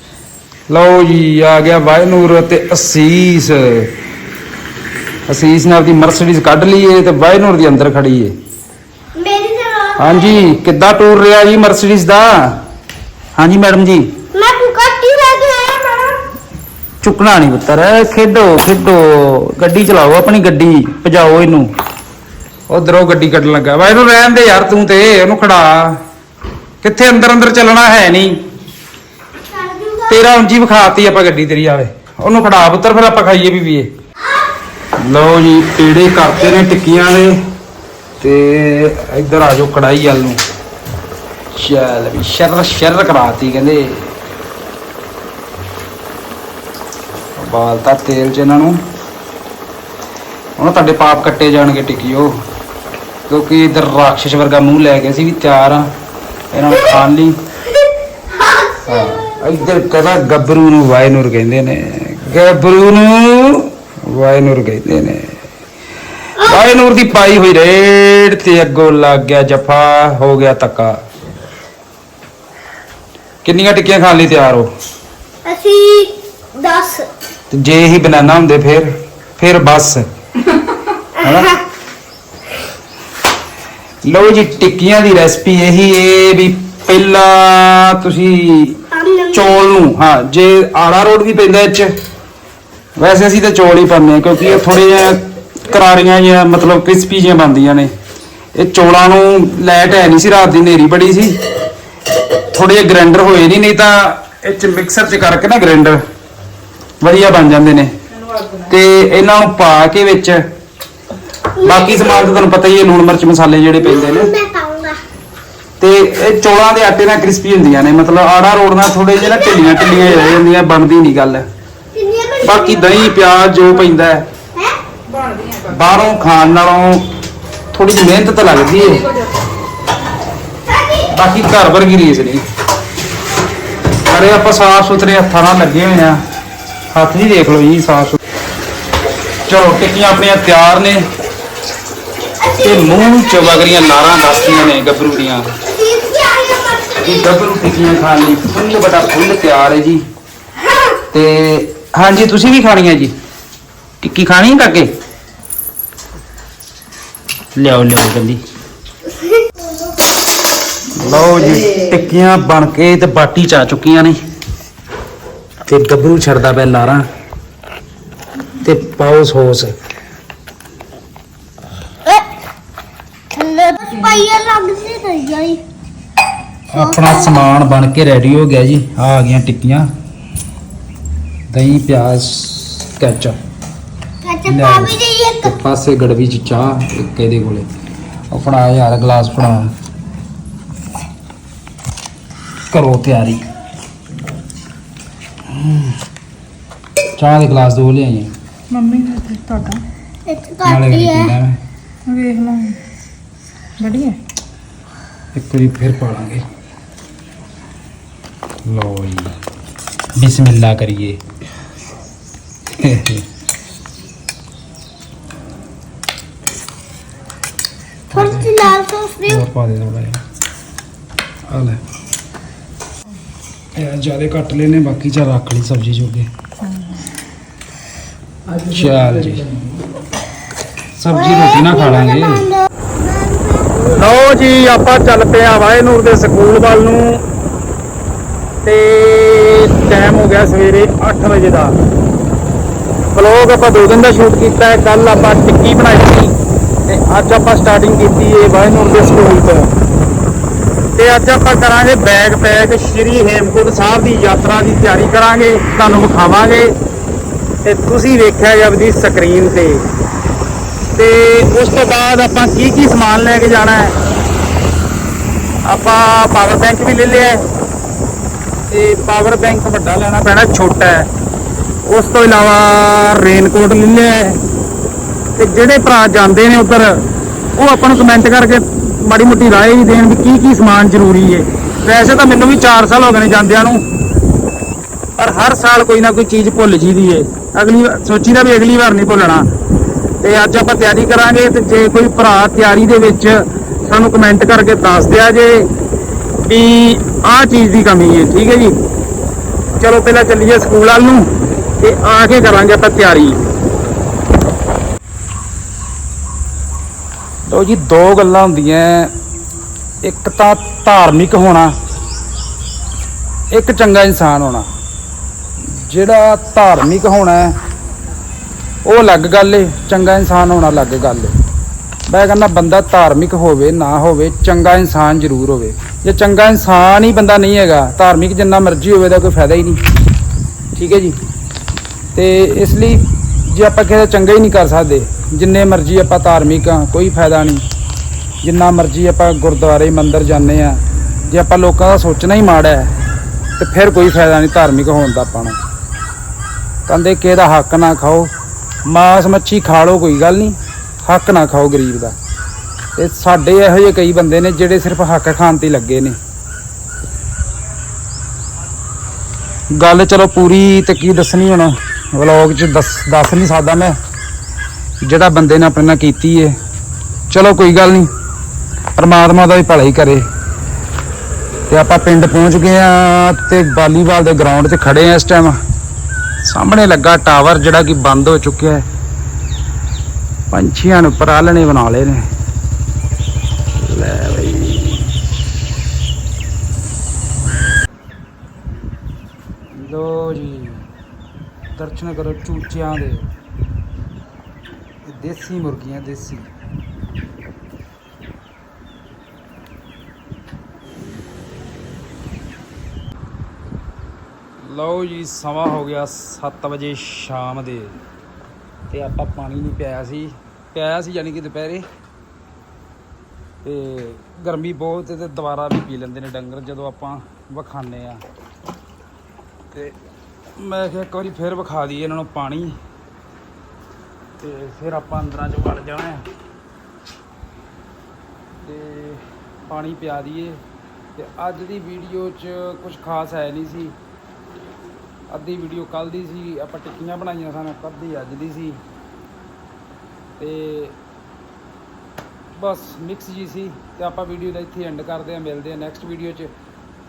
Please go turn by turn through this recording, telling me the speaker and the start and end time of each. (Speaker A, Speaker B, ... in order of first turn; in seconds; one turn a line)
Speaker A: 0.7-3.9
Speaker A: 5.3-8.3
Speaker B: 9.2-10.5
Speaker A: 10.0-12.6
Speaker A: 13.3-14.1
Speaker B: 14.3-16.2
Speaker A: 17.0-21.7
Speaker A: 22.7-26.0
Speaker A: 26.8-28.4
Speaker B: 29.4-30.1
Speaker A: 30.1-33.9
Speaker A: 35.0-37.4
Speaker A: 38.2-40.4
Speaker A: 41.5-44.1
Speaker A: 47.4-48.8
Speaker A: 50.6-52.3
Speaker A: 53.3-55.9
Speaker A: 56.5-57.4
Speaker B: 58.4-59.1
Speaker A: 58.8-65.3
Speaker A: 66.4-71.0
Speaker A: 73.4-74.7
Speaker B: 75.4-77.1
Speaker A: 77.5-80.0
Speaker A: 81.2-81.6
Speaker A: 84.0-91.9
Speaker B: 89.0-89.3
Speaker A: 93.0-97.9
Speaker A: 98.5-101.4
Speaker A: 102.5-106.0
Speaker A: 107.0-107.9
Speaker A: 108.5-110.4
Speaker A: 111.6-114.3
Speaker B: 111.7-112.2
Speaker B: 114.0-115.0
Speaker A: 115.8-121.5
Speaker B: 121.9-123.0
Speaker A: 122.4-124.3
Speaker C: 125.2-125.5
Speaker A: 125.6-127.0
Speaker A: 127.7-129.1
Speaker A: 131.1-132.4
Speaker A: 134.0-136.2
Speaker A: 136.9-138.2
Speaker A: 139.5-141.1
Speaker A: 142.5-145.5
Speaker B: 145.6-147.2
Speaker A: 147.0-150.0
Speaker A: 151.1-153.1
Speaker A: 154.0-154.9
Speaker A: 157.5-158.4
Speaker A: 160.9-164.2
Speaker A: 165.7-167.1
Speaker A: 168.6-169.7
Speaker B: 173.3-175.6
Speaker A: 176.7-179.9
Speaker B: 176.7-177.4
Speaker A: 181.5-183.4
Speaker B: 184.2-185.5
Speaker A: 184.4-187.7
Speaker A: 188.3-189.7
Speaker A: 192.7-193.4
Speaker A: 195.5-195.9
Speaker A: 197.2-198.3
Speaker C: 198.7-199.8
Speaker B: 200.2-201.3
Speaker A: 200.6-201.6
Speaker C: 202.1-202.8
Speaker C: 203.8-204.2
Speaker A: 205.3-206.4
Speaker A: 208.7-209.3
Speaker A: 210.2-211.2
Speaker A: 212.7-213.2
Speaker B: 218.1-219.4
Speaker A: 218.1-218.7
Speaker A: 219.2-220.2
Speaker A: 221.5-221.8
Speaker A: 223.7-226.3
Speaker A: 228.6-229.6
Speaker A: 231.0-232.5
Speaker B: 231.3-234.0
Speaker A: 233.8-237.2
Speaker A: 238.6-241.8
Speaker A: 243.1-246.3
Speaker A: 246.8-249.7
Speaker A: 251.0-256.7
Speaker A: 257.6-259.8
Speaker A: 260.9-263.9
Speaker A: 265.6-267.4
Speaker A: 268.7-271.1
Speaker A: 271.9-274.4
Speaker A: 275.4-277.0
Speaker A: 277.6-283.8
Speaker A: 285.2-289.4
Speaker A: 290.2-295.7
Speaker A: 296.4-298.8
Speaker A: 299.8-301.3
Speaker A: 301.8-303.4
Speaker A: 307.5-309.1
Speaker A: 310.0-311.7
Speaker A: 313.5-314.7
Speaker A: 315.7-317.5
Speaker A: 318.8-321.4
Speaker A: 322.1-329.8
Speaker A: 330.8-331.1
Speaker A: 332.1-337.6
Speaker A: 338.4-342.9
Speaker A: 343.6-345.6
Speaker A: 346.9-348.3
Speaker A: 348.9-352.1
Speaker A: 352.9-356.2
Speaker A: 359.7-363.9
Speaker A: 365.0-366.5
Speaker A: 367.3-368.1
Speaker A: 368.9-370.2
Speaker A: 371.7-375.6
Speaker A: 376.4-378.8
Speaker A: 380.5-382.2
Speaker A: 383.8-385.1
Speaker A: 389.7-390.9
Speaker A: 391.8-393.2
Speaker A: 395.0-396.5
Speaker A: 404.6-408.0
Speaker A: 408.9-411.8
Speaker A: 413.6-418.2
Speaker A: 420.6-422.8
Speaker A: 424.4-426.2
Speaker A: 428.6-430.6
Speaker A: 431.1-433.9
Speaker A: 435.3-438.8
Speaker A: 440.4-441.0
Speaker A: 442.5-446.5